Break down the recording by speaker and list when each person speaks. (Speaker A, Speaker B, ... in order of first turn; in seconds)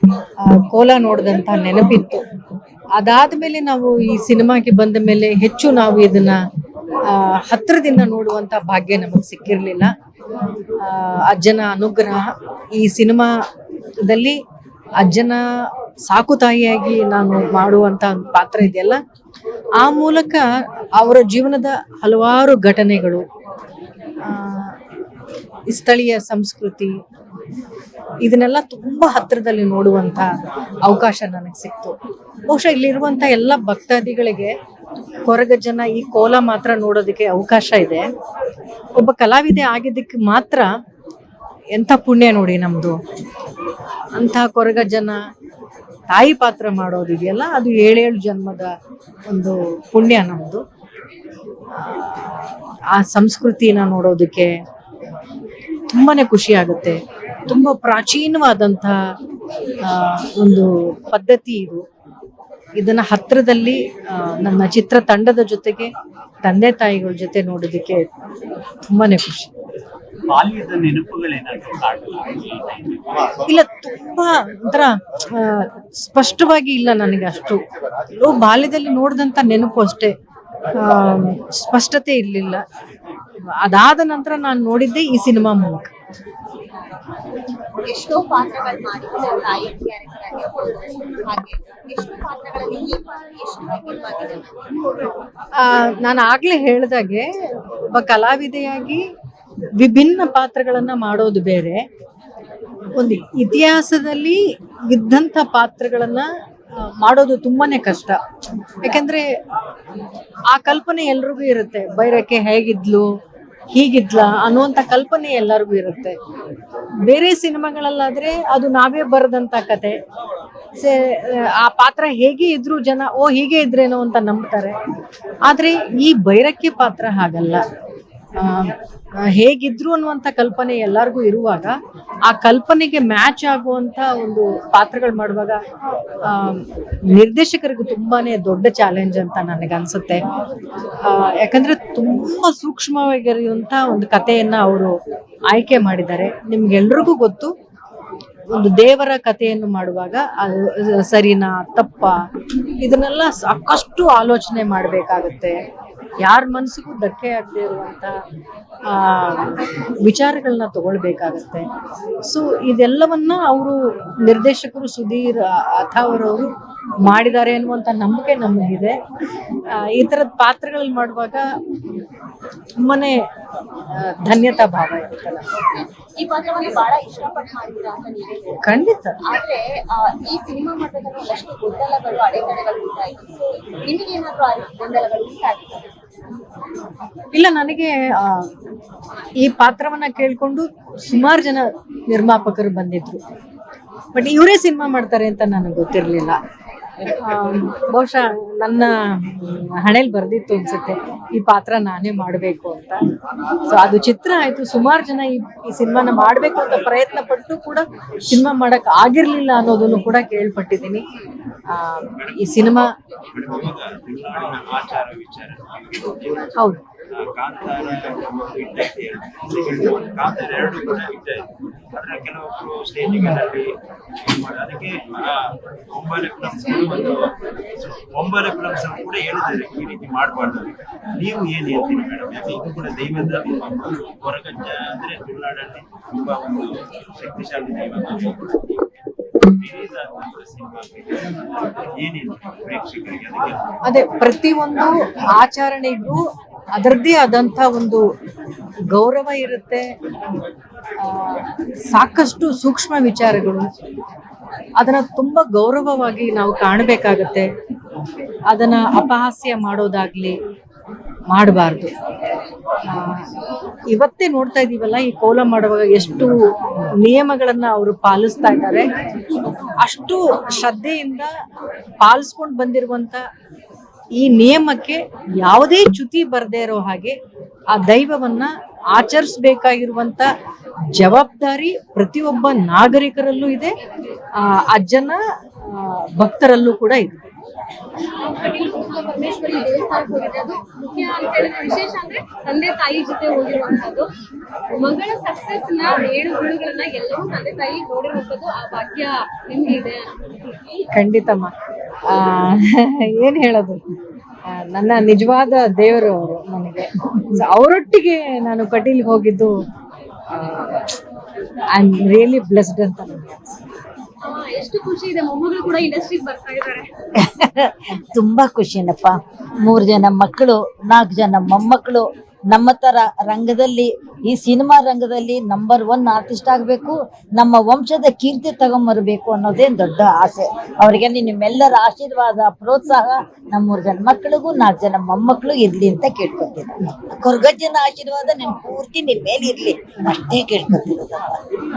Speaker A: 0.4-2.2, 3.0-6.4, 7.1-9.9, 10.8-12.2, 12.8-13.3, 14.0-14.4, 15.0-15.4, 16.1-19.0, 19.8-20.4, 21.0-23.2, 24.2-24.7, 25.7-26.9, 28.2-30.3, 30.8-31.9, 32.5-34.5, 35.2-38.1, 39.0-40.7, 41.7-43.0, 44.1-45.2, 46.1-48.7, 49.3-50.6, 51.8-54.5, 55.9-59.0, 59.9-61.8, 62.8-65.9, 66.4-68.1, 68.8-69.5, 73.5-77.6, 78.2-80.1, 80.7-82.6, 83.5-85.9, 95.6-97.3, 97.9-99.0, 99.8-101.8, 103.0-106.3, 106.8-108.2, 108.8-109.3, 110.5-113.1, 113.7-116.2, 117.1-120.0, 120.8-124.8, 125.5-127.6, 128.4-135.6, 136.3-140.2, 141.0-144.9, 145.5-147.5, 148.5-152.1, 152.8-155.6, 156.2-158.1, 158.9-159.5, 160.0-161.7, 162.2-166.5, 167.0-169.0, 169.7-171.4, 172.8-173.2, 173.9-175.4, 178.6-179.2, 187.3-188.5, 189.4-193.2, 194.1-196.4, 197.2-203.1, 203.7-211.0, 211.7-212.9, 243.9-246.2, 246.8-248.0, 248.9-249.8, 251.0-253.7, 254.8-257.5, 258.5-260.4, 261.3-261.9, 262.9-263.3, 263.9-266.3, 267.0-268.9, 269.8-271.3, 272.0-273.2, 274.2-277.1, 277.7-280.3, 280.9-283.7, 284.4-287.2, 300.9-301.5, 302.1-303.8, 304.5-309.5, 310.3-310.9, 311.7-313.4
Speaker B: 70.3-73.4, 212.2-223.7, 224.2-238.9, 239.4-241.3, 242.0-243.6
Speaker C: 87.8-94.5, 175.5-178.6, 179.2-185.9
Speaker D: 288.3-294.1, 294.8-300.1, 314.3-316.9
Speaker E: 317.2-341.4